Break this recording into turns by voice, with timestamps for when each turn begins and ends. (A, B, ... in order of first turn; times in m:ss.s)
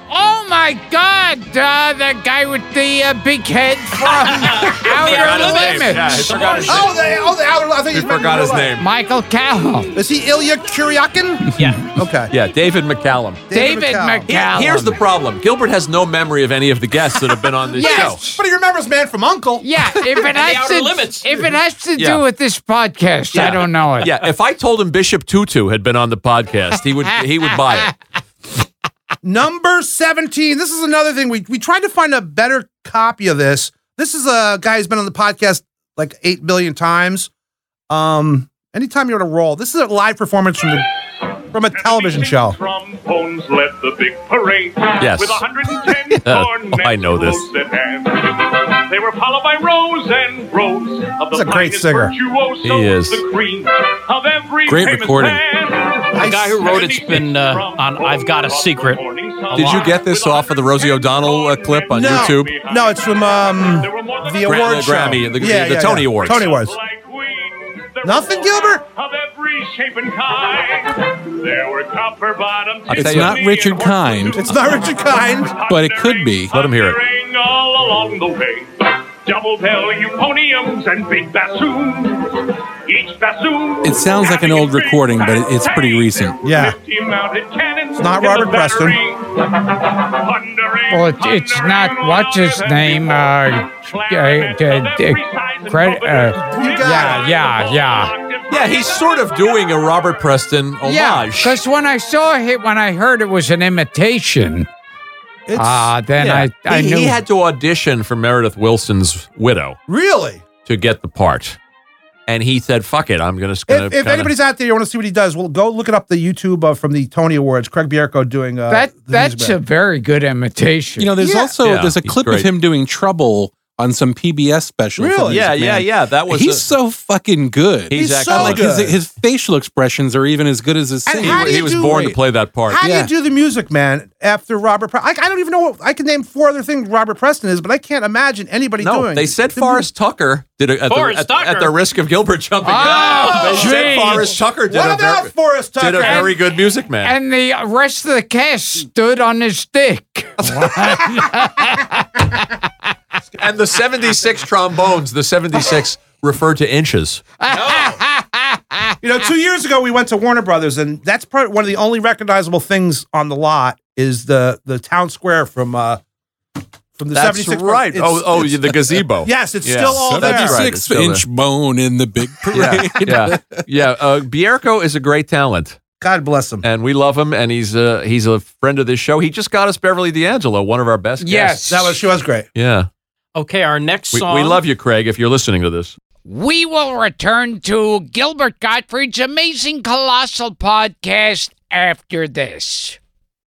0:00.1-0:06.6 A
0:04.2-0:06.9 B
0:04.6-0:06.9 C
0:06.7-0:08.8 D
0:07.9-0:08.8 C
0:08.8-0:09.9 A
0:10.0-0:12.3 D
0:11.6-0:11.8 B
0:12.3-0:13.4 C
0:13.5-0:14.4 D
0:13.5-0:15.0 A
0:14.3-0:18.2 C
0:17.7-0:18.4 A
0:17.8-0:19.9 D
0:19.6-0:24.2 A
0:20.3-0:21.3 B
0:22.0-0:22.2 C
0:23.3-0:27.9 C
0:29.2-0:37.3 D
0:37.9-0:40.9 D
0:41.5-0:42.6 D
0:41.7-1:04.8 E
0:45.0-0:45.4 C
0:46.2-0:47.5 C
0:51.3-0:52.2 D
0:52.6-0:53.2 C
0:54.7-0:55.4 F
0:56.1-0:59.0 B
0:56.2-0:56.7 D
0:59.5-1:02.5 C
0:59.6-0:59.8 B
1:01.9-1:06.8 D
1:04.4-1:06.5 C
1:06.2-1:39.9 E
1:08.0-1:08.8 D
1:12.9-1:13.4 C
1:12.9-1:14.4 F
1:14.4-1:15.6 D
1:15.7-1:16.5 F
1:16.5-1:17.0 C
1:23.8-1:26.4 F
1:26.4-1:26.8 D
1:28.0-1:29.0 D
1:30.9-1:38.1 A
1:36.4-1:37.3 D
1:38.5-1:41.6 C
1:40.8-1:44.7 A
1:45.5-1:46.0 D
1:45.6-1:47.2 A
1:46.2-1:49.8 C
1:49.9-1:50.4 D
1:50.6-1:51.6 C
1:52.3-1:54.3 C
1:53.7-1:59.6 D
1:58.7-2:01.1 A
2:01.0-2:12.2 F
2:01.2-2:01.5 D
2:01.6-2:02.5 C
2:05.0-2:05.5 D
2:05.3-2:06.7 C
2:07.9-2:08.7 C
2:07.9-2:09.0 D
2:11.1-2:12.2 D
2:11.2-2:12.8 C
2:12.7-2:19.9 D
2:12.8-2:13.1 F
2:18.8-2:27.1 C
2:20.9-2:21.8 B
2:22.6-2:24.4 A
2:23.4-2:26.4 D
2:26.0-2:26.3 A
2:27.0-2:32.6 A
2:33.4-2:37.2 C
2:37.4-2:39.0 A
2:39.0-2:46.0 D
2:47.0-2:50.7 D
2:47.1-2:51.2 C
2:50.0-2:53.6 F
2:52.5-2:55.8 C
2:56.0-2:56.6 D
2:56.6-3:01.8 C
3:01.2-3:02.0 A
3:01.7-3:02.5 D
3:02.6-3:02.9 C
3:03.4-3:04.6 B
3:04.1-3:06.0 C
3:06.3-3:13.0 A